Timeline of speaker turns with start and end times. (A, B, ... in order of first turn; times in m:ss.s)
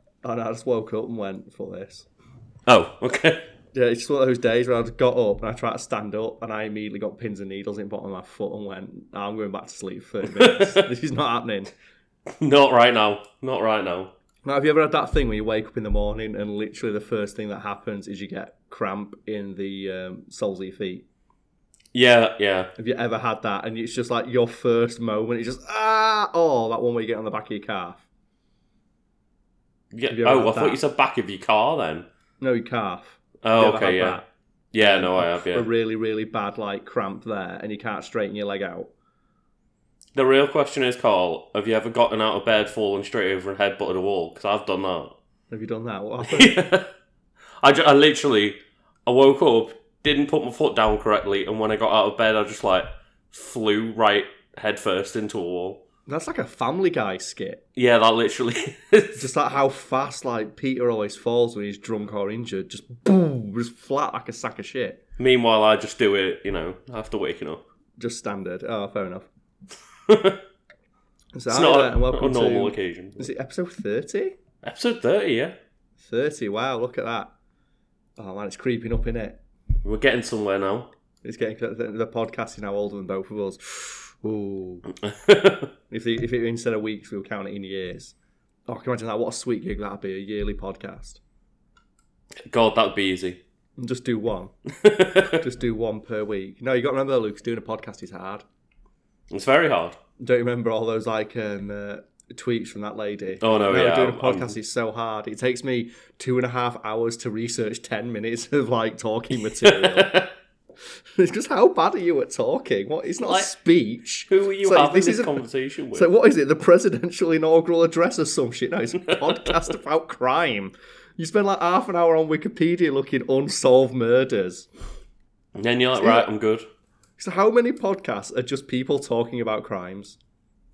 0:00.2-0:02.0 A
0:02.7-0:03.5 B
0:03.7-0:11.7 A
0:10.3-0:10.9 B
0:12.3-0:14.1 B
0:14.4-0:21.0 A
0:21.9-0:22.7 B
0:22.8-0:28.0 A
0:29.9-0:32.1 B
0:30.1-0:30.8 A
0:32.4-0:34.2 A
0:33.4-0:34.2 B
0:34.7-0:35.7 B
0:34.8-0:38.9 A
0:40.1-0:45.2 B
0:45.5-0:46.6 A
0:46.2-0:46.9 B
0:47.6-0:55.8 B
0:56.1-0:57.6 A
0:57.7-0:59.3 B
0:59.2-1:05.0 A
1:05.2-1:07.6 B
1:08.0-1:09.3 A
1:10.1-1:10.4 B
1:11.3-1:14.4 A
1:11.5-1:13.3 B
1:14.6-1:15.6 B
1:16.0-1:17.3 A
1:18.2-1:19.4 A
1:19.8-1:20.9 B
1:21.2-1:24.9 A
1:25.0-1:25.7 B
1:25.9-1:28.1 A
1:28.7-1:31.2 A
1:32.5-1:33.4 B
1:33.8-1:34.5 A
1:34.7-1:35.4 B
1:35.2-1:38.4 A
1:39.3-1:40.0 B
1:40.2-1:50.2 A
1:43.4-1:44.6 B
1:49.4-1:50.3 B
1:51.2-1:55.4 A
1:53.2-1:53.5 B
1:54.3-1:56.1 B
1:55.9-2:04.7 A
1:59.2-1:59.5 B
2:05.6-2:06.7 B
2:06.0-2:06.3 A
2:07.2-2:10.2 A